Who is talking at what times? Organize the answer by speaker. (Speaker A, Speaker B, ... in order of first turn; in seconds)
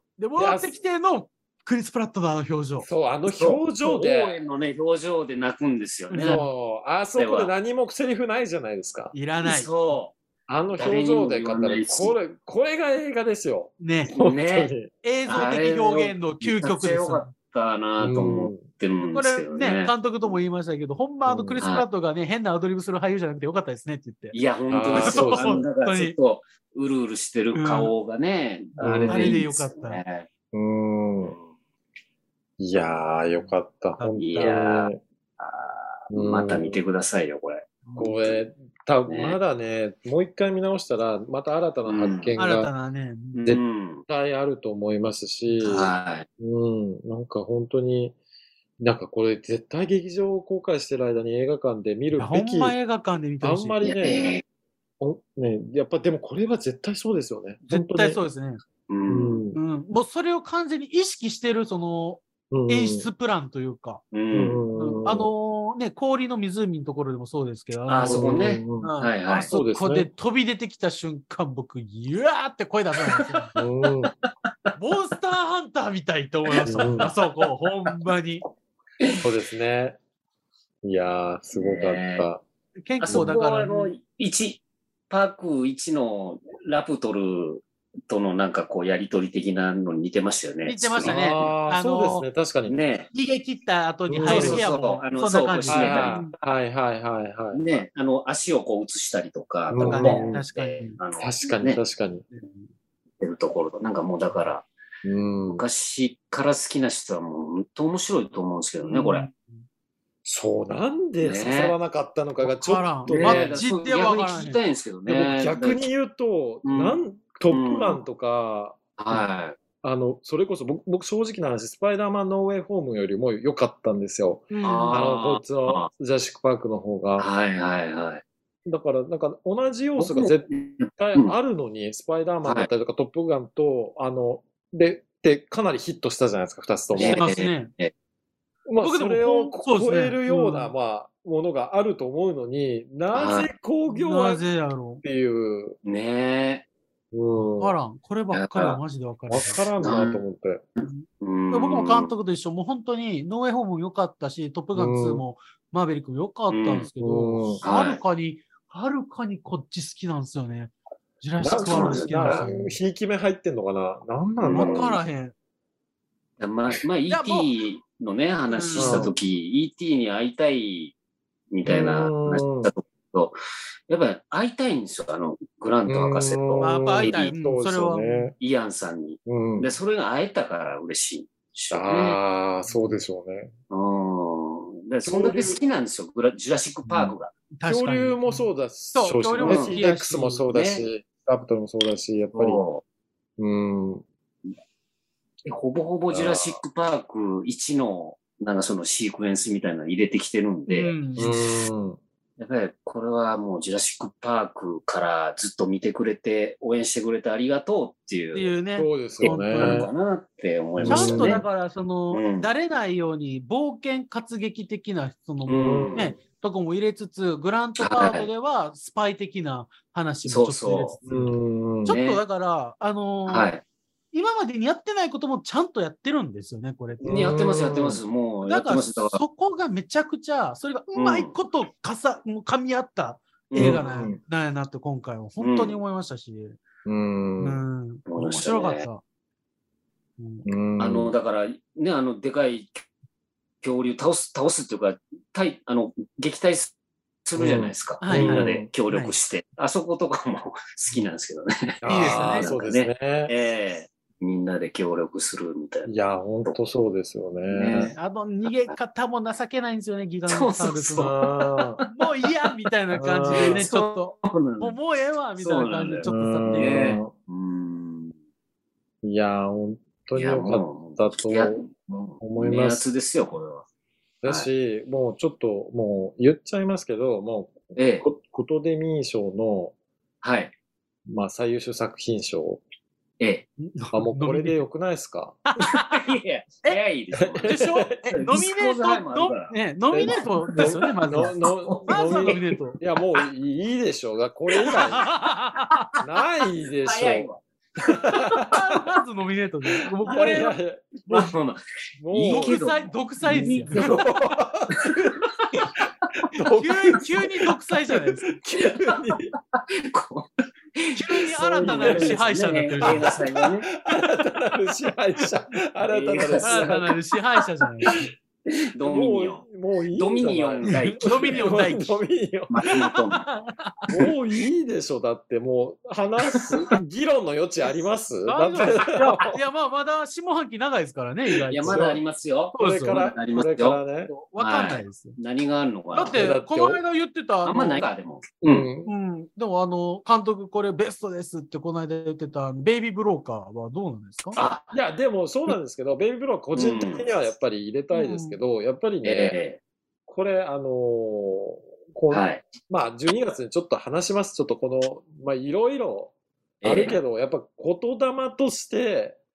Speaker A: 0.2-2.9, 6.1-6.4, 9.1-9.7, 13.8-14.1, 15.0-17.3, 19.0-24.4, 25.0-26.1, 27.5-27.9, 29.1-30.0, 34.0-34.5, 37.9-38.1, 42.4-43.5, 45.5-45.7, 52.1-53.8, 57.7-58.6, 59.5-64.0, 64.8-73.5, 74.8-78.4, 82.8-83.9, 90.7-92.3, 93.1-96.3, 99.8-101.0, 102.3-102.7, 108.8-109.6, 112.4-114.6, 124.5-125.0, 137.0-137.7, 138.8-140.7, 143.9-145.0, 147.6-149.6, 150.8-162.8, 164.5-165.3, 167.1-167.5, 168.5-169.1, 176.6-178.3, 182.7-183.0, 187.6-190.4, 200.7-201.5, 208.3-209.9, 210.8-223.5, 224.1-227.3, 228.4-236.6, 237.4-239.0, 240.2-240.4, 248.0-249.2, 251.8-252.5, 257.9-261.2, 261.9-266.9, 283.6-284.6, 285.5-286.1, 287.4-292.8, 294.7-295.9, 298.5-300.6, 302.1-304.1, 306.5-308.4, 310.9-313.2, 316.4-317.9, 320.6-322.0, 322.6-323.8, 328.3-331.9, 332.5-333.1, 334.1-335.2, 335.9-337.8, 338.8-344.4, 347.9-348.4
Speaker B: 0.4-0.7, 2.8-4.4, 6.2-9.1, 10.5-14.9, 18.0-18.6, 21.2-21.6, 24.7-25.6, 28.8-29.4, 30.5-31.4, 32.6-35.0, 36.1-36.8, 38.0-42.7, 43.5-48.1, 48.8-52.8, 53.4-54.3, 55.0-58.2, 59.1-59.6, 62.5-63.1, 64.3-65.3, 68.0-68.9, 69.4-70.1, 73.5-74.1, 76.6-77.1, 79.2-80.0, 80.8-82.4, 83.0-83.3, 91.0-92.8, 94.1-94.6, 95.7-97.6, 99.7-100.4, 101.2-102.2, 105.0-105.6, 110.2-113.6, 115.1-119.2, 119.8-127.3, 128.7-137.2, 138.7-144.4, 145.0-145.8, 147.1-147.7, 149.3-150.6, 154.7-155.2, 157.0-157.6, 161.4-165.0, 168.7-169.1, 171.7-172.7, 175.9-178.3, 179.2-179.7, 181.7-183.5, 185.0-185.6, 186.9-187.1, 187.7-192.6, 193.4-194.0, 196.1-196.6, 201.2-202.0, 208.8-209.9, 210.8-211.4, 215.6-216.1, 221.1-222.0, 227.0-228.0, 233.6-234.2, 236.8-237.6, 240.4-241.1, 247.4-248.7, 251.8-253.3, 255.8-257.9, 261.0-261.8, 262.9-263.7, 266.0-267.1, 269.0-271.6, 272.2-272.9, 274.2-279.7, 281.1-282.6, 283.9-285.4, 287.1-288.4, 289.9-295.1, 296.0-297.3, 297.9-298.6, 300.0-301.1, 302.0-302.6, 303.2-305.8, 306.3-309.3, 311.3-312.2, 312.8-316.9, 317.8-318.1, 318.9-322.7, 323.9-329.4, 331.6-332.0, 332.6-334.1, 336.1-336.8, 338.4-338.9, 344.7-349.4, 350.1-356.1, 356.6-359.2
Speaker C: 3.3-6.4, 7.2-7.5, 9.4-10.1, 10.7-12.2, 14.1-14.7, 15.3-19.9, 21.6-21.8, 24.3-30.3, 34.2-38.4, 39.1-39.4, 41.9-42.3, 43.3-44.0, 45.6-46.3, 53.8-54.4, 58.9-59.4, 64.1-64.6, 67.8-69.5, 73.1-73.5, 76.5-77.1, 81.5-82.2, 83.0-91.5, 92.7-93.1, 94.2-96.3, 97.5-101.8, 103.2-104.7, 105.5-109.3, 111.2-111.8, 113.1-115.8, 116.6-118.0, 119.0-119.6, 124.6-125.9, 127.2-128.2, 130.0-131.3, 132.4-132.7, 136.9-137.9, 143.1-143.5, 145.8-146.6, 148.3-148.8, 149.8-150.2, 150.8-152.1, 156.5-156.9, 157.6-158.0, 161.5-162.5, 164.4-164.9, 166.4-170.9, 171.5-173.3, 173.9-177.3, 178.4-182.2, 183.7-187.3, 189.4-189.8, 190.5-190.8, 192.3-192.8, 195.4-201.0, 202.4-208.5, 209.2-211.4, 212.1-212.5, 215.4-216.1, 217.8-218.3, 220.2-220.9, 221.9-222.2, 223.3-223.6, 227.0-229.2, 230.9-231.3, 233.5-234.1, 235.4-235.8, 238.1-238.9, 240.8-242.8, 243.6-246.7, 247.2-256.5, 257.5-257.9, 258.5-258.7, 260.3-261.9, 263.3-264.8, 265.4-268.1, 270.1-273.6, 277.8-278.1, 280.2-280.5, 283.2-283.5, 285.6-289.5, 290.0-292.4, 296.8-298.5, 300.0-300.5, 301.0-304.1, 304.7-305.8, 308.6-309.0, 309.5-313.7, 315.8-316.9, 318.5-319.4, 319.9-321.6, 322.5-323.2, 326.3-326.6, 331.5-333.8, 334.4-336.2, 337.4-338.7, 344.3-344.7, 346.5-347.1, 349.0-349.6, 352.1-352.4, 356.6-357.0